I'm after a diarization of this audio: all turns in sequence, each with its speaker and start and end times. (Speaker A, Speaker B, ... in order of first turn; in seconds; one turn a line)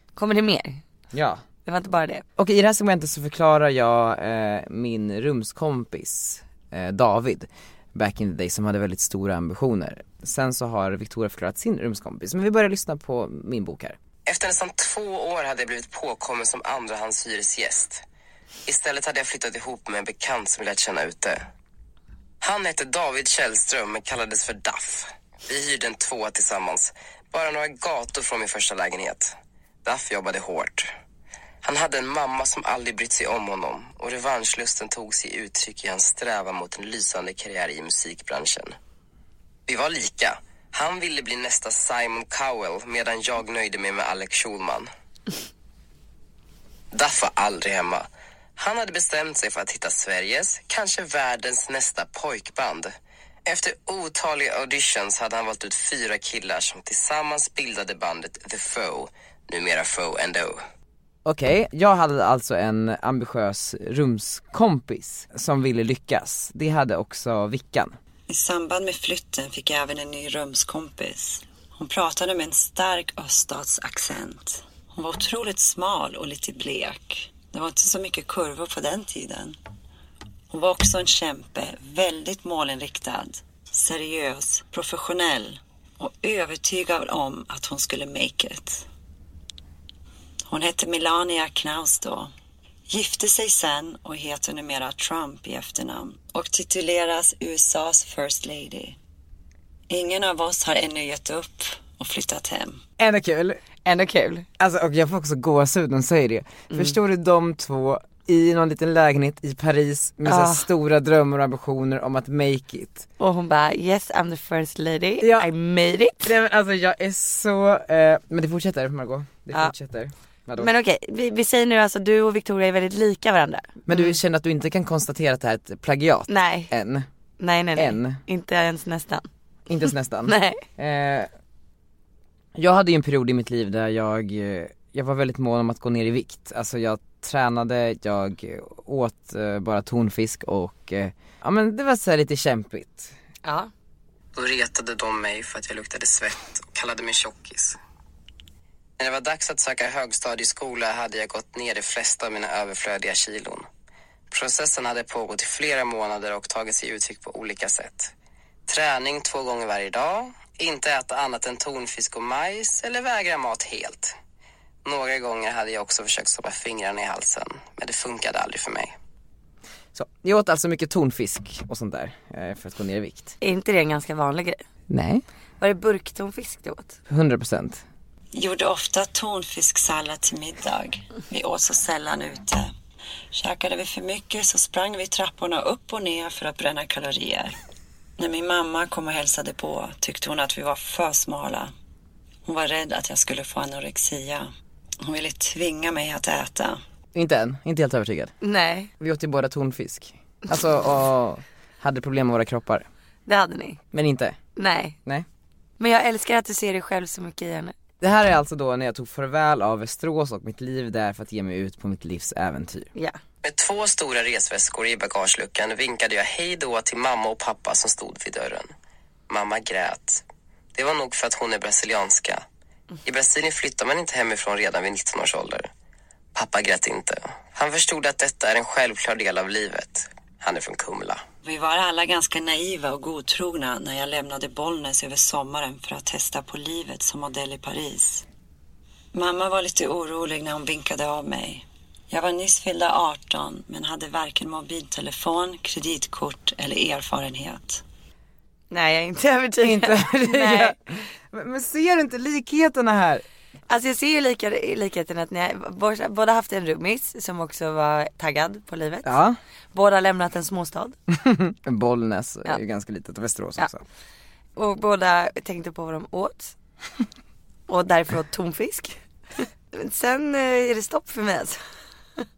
Speaker A: 0.2-0.8
Speaker B: 1.1-1.4
Speaker A: 1.6-2.2
Speaker B: 2.4-14.0
Speaker C: 14.3-18.0
Speaker C: 18.7-21.4
Speaker C: 22.4-29.3
Speaker C: 29.8-30.9
Speaker C: 31.6-38.8
Speaker C: 39.7-44.9
Speaker C: 46.9-52.9
Speaker C: 53.5-60.6
Speaker B: 61.2-67.9
Speaker D: 68.3-79.6
Speaker D: 80.5-88.9
Speaker D: 90.5-92.3
Speaker D: 92.9-99.0
Speaker D: 99.9-102.8
Speaker B: 103.0-103.6
Speaker A: 103.9-104.5
Speaker B: 104.6-113.1
Speaker A: 106.7-107.0
Speaker A: 110.2-110.7
Speaker A: 113.2-116.3
Speaker B: 115.2-115.5
Speaker B: 116.2-120.7
Speaker A: 120.6-124.1
Speaker B: 123.9-127.1
Speaker A: 126.3-126.7
Speaker A: 127.4-129.3
Speaker B: 127.8-128.2
Speaker B: 129.7-131.3
Speaker A: 130.2-130.6
Speaker B: 132.6-143.1
Speaker A: 143.4-143.7
Speaker C: 144.3-147.8
Speaker C: 149.0-153.7
Speaker C: 154.3-158.1
Speaker C: 158.7-164.1
Speaker C: 164.8-168.9
Speaker B: 169.9-173.4
Speaker A: 173.4-174.6
Speaker B: 174.9-175.2
Speaker A: 175.6-177.0
Speaker B: 177.1-177.8
Speaker D: 178.3-182.7
Speaker D: 183.3-187.6
Speaker D: 188.2-191.7
Speaker D: 192.5-196.8
Speaker B: 197.2-198.3
Speaker A: 198.4-198.9
Speaker B: 199.0-202.9
Speaker A: 203.3-203.8
Speaker B: 203.9-204.4
Speaker A: 204.6-205.0
Speaker A: 205.8-207.7
Speaker B: 208.0-212.9
Speaker C: 213.4-218.7
Speaker C: 219.3-220.2
Speaker C: 220.8-222.4
Speaker C: 223.1-225.7
Speaker C: 226.3-231.2
Speaker D: 231.4-238.2
Speaker D: 239.1-247.8
Speaker A: 248.7-250.8
Speaker B: 249.6-253.2
Speaker A: 253.7-259.1
Speaker B: 259.0-259.4
Speaker A: 259.7-261.0
Speaker B: 261.1-263.8
Speaker A: 264.6-266.6
Speaker A: 267.7-271.6